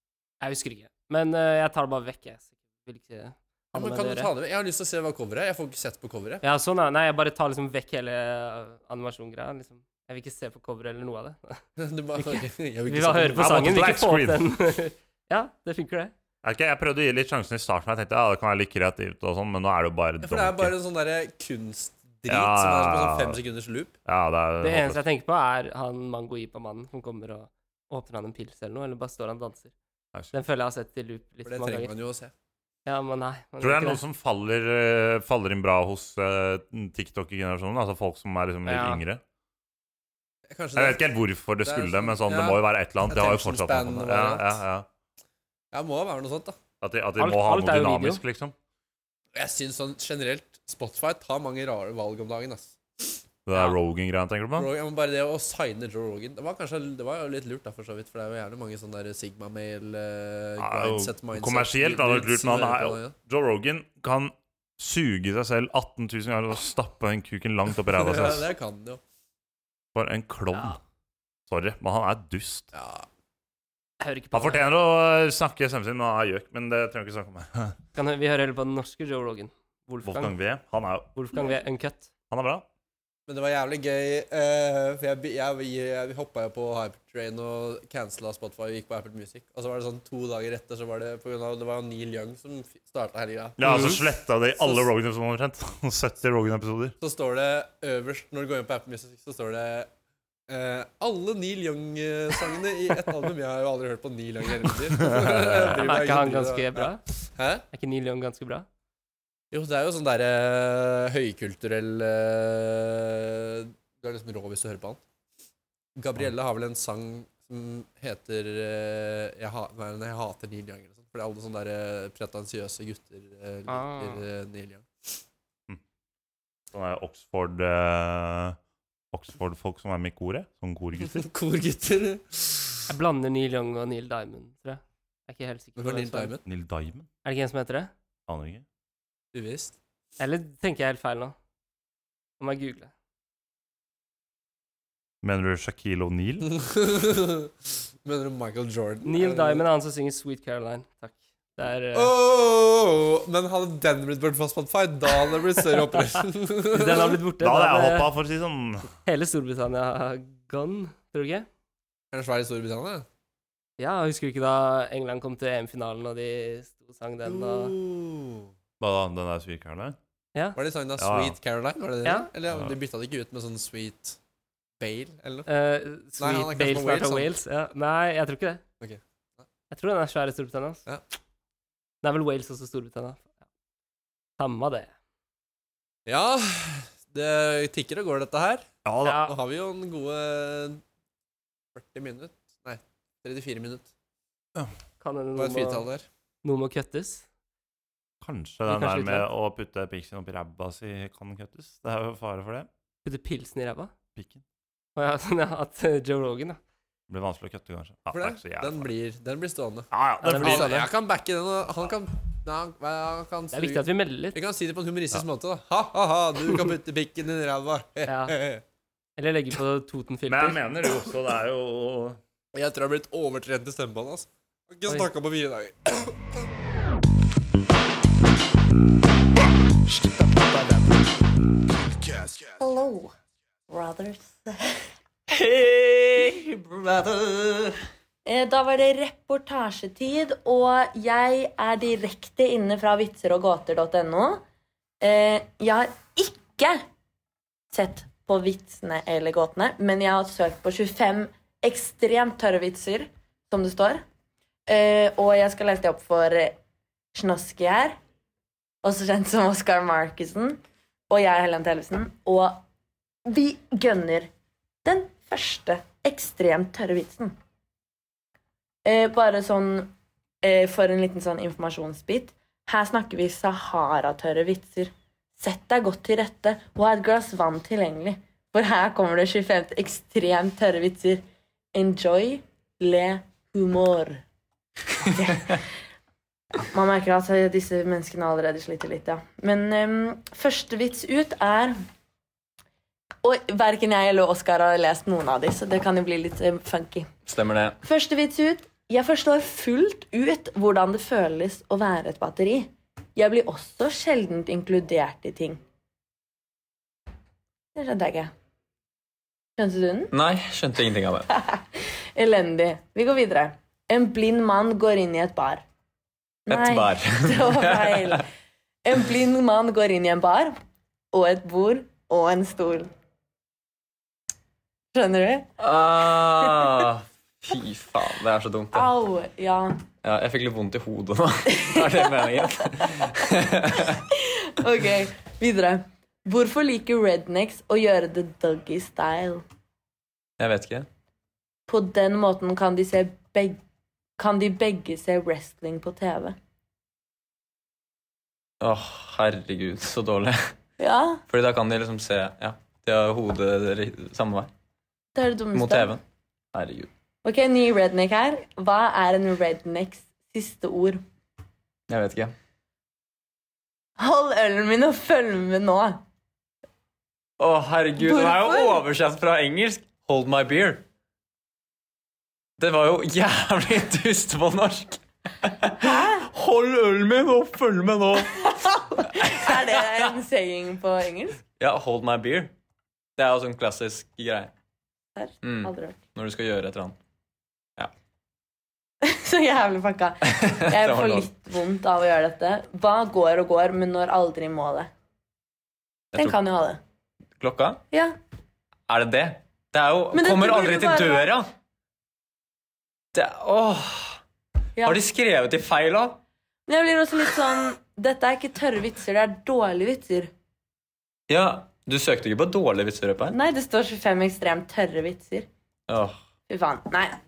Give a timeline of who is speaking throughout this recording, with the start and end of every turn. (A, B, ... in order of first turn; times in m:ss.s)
0:00.4-0:04.3 A
0:03.8-0:06.4 B
0:06.4-0:11.6 A
0:11.8-0:13.8 B
0:12.2-0:16.1 A
0:13.4-0:14.4 C
0:16.4-0:20.7 C
0:20.2-0:23.9 B
0:22.3-0:23.4 C
0:24.1-0:25.0 C
0:24.6-0:29.7 A
0:30.3-0:31.9 A
0:31.4-0:32.3 B
0:32.9-0:34.0 A
0:33.6-0:39.2 C
0:38.7-0:39.0 A
0:40.5-0:41.0 B
0:40.8-0:44.8 C
0:41.6-0:44.6 B
0:45.7-0:46.6 B
0:46.8-0:48.6 C
0:47.2-0:48.2 A
0:49.4-0:53.2 B
0:53.5-0:54.7 C
0:54.6-1:03.2 B
1:00.6-1:08.5 C
1:07.9-1:09.0 B
1:10.0-1:10.8 C
1:10.5-1:10.8 A
1:11.5-1:12.7 C
1:12.7-1:13.1 B
1:14.0-1:14.7 A
1:14.3-1:17.8 C
1:18.0-1:20.4 A
1:20.0-1:21.1 C
1:21.2-1:22.1 A
1:22.3-1:22.7 C
1:23.3-1:34.9 B
1:33.6-1:37.0 C
1:33.6-1:34.0 A
1:37.0-1:39.9 B
1:40.5-1:47.6 B
1:45.0-1:45.6 C
1:45.7-1:47.0 A
1:47.7-1:48.7 A
1:49.5-1:55.0 B
1:56.0-2:05.2 B
2:03.7-2:04.3 A
2:06.7-2:08.6 C
2:09.1-2:11.3 C
2:11.1-2:12.9 B
2:12.9-2:16.3 A
2:15.8-2:16.4 B
2:16.4-2:17.1 C
2:17.2-2:17.9 A
2:18.3-2:18.6 C
2:19.3-2:19.8 B
2:20.2-2:21.4 A
2:22.4-2:22.9 A
2:25.2-2:26.5 C
2:26.5-2:27.5 B
2:28.0-2:29.6 B
2:29.0-2:32.1 A
2:31.9-2:37.2 B
2:36.7-2:38.1 A
2:37.4-2:38.9 C
2:39.1-2:41.5 A
2:42.1-2:43.1 B
2:43.8-2:47.8 A
2:47.2-2:48.5 B
2:48.8-2:50.0 C
2:50.6-2:54.2 B
2:51.0-2:51.4 C
2:52.5-2:52.8 C
2:54.8-2:55.5 B
2:55.5-2:58.6 A
2:56.2-2:57.3 B
2:58.8-2:59.4 B
2:59.7-3:00.8 A
3:02.0-3:03.3 A
3:04.4-3:04.9 A
3:06.1-3:08.7 B
3:08.8-3:09.3 C
3:09.0-3:09.4 A
3:09.2-3:10.8 B
3:11.7-3:13.9 B
3:15.0-3:15.9 A
3:15.4-3:16.1 B
3:16.4-3:17.3 A
3:18.2-3:22.7 C
3:18.7-3:19.3 A
3:23.0-3:23.9 A
3:24.2-3:24.4 C
3:25.0-3:26.6 A
3:27.1-3:28.9 C
3:28.1-3:29.9 B
3:29.9-3:30.8 C
3:30.2-3:30.9 A
3:30.4-3:38.6 B
3:33.5-3:34.4 A
3:38.1-3:38.4 A
3:39.2-3:40.6 A
3:40.3-3:42.2 C
3:42.5-3:46.5 B
3:52.6-3:53.2 D
3:53.7-3:54.9 D
3:55.3-3:57.8 E
3:58.2-4:04.4 D
4:05.0-4:06.8 D
4:07.7-4:14.0 D
4:14.7-4:16.6 D
4:17.1-4:18.0 D
4:18.8-4:22.6 D
4:23.3-4:24.3 D
4:24.8-4:27.4 D
4:28.8-4:41.2 D
4:41.7-4:44.2 D
4:45.2-4:45.6 D
4:46.6-4:51.8 D
4:53.2-4:57.1 D
4:57.3-4:57.8 E
4:57.8-5:05.6 D
5:07.8-5:08.3 D
5:09.6-5:10.1 D
5:10.1-5:11.3 E
5:11.4-5:15.6 D
5:16.5-5:18.3 D
5:16.5-5:18.2 E
5:18.8-5:20.6 D
5:21.1-5:22.9 D
5:24.9-5:25.5 D
5:25.6-5:28.9 E
5:28.7-5:29.9 D
5:30.0-5:34.0 E
5:31.6-5:32.4 D
5:33.7-5:39.4 D
5:40.4-5:40.9 E
5:41.7-5:43.6 D
5:44.2-5:46.4 D
5:48.6-5:50.5 E
5:50.8-5:51.2 D
5:51.3-5:54.5 E
5:55.2-5:56.0 D
5:55.5-5:56.9 E
5:57.2-6:01.0 D
6:01.9-6:02.3 E
6:04.0-6:06.0 D
6:07.4-6:10.8 E
6:08.0-6:08.8 D
6:12.6-6:19.9 E
6:15.8-6:16.2 D
6:18.9-6:21.4 D
6:21.6-6:22.5 E
6:23.2-6:24.5 E
6:25.2-6:26.0 D
6:25.4-6:27.0 E
6:29.0-6:34.9 D
6:30.2-6:31.3 E
6:36.1-6:36.8 D
6:37.4-6:37.8 E
6:37.9-6:38.2 D
6:38.9-6:41.5 E
6:40.1-6:41.3 D
6:43.1-6:44.2 E
6:44.8-6:46.2 E
6:46.7-6:50.3 D
6:51.3-6:53.4 E
6:53.3-6:55.5 D
6:55.9-6:56.2 E
6:56.5-6:57.2 D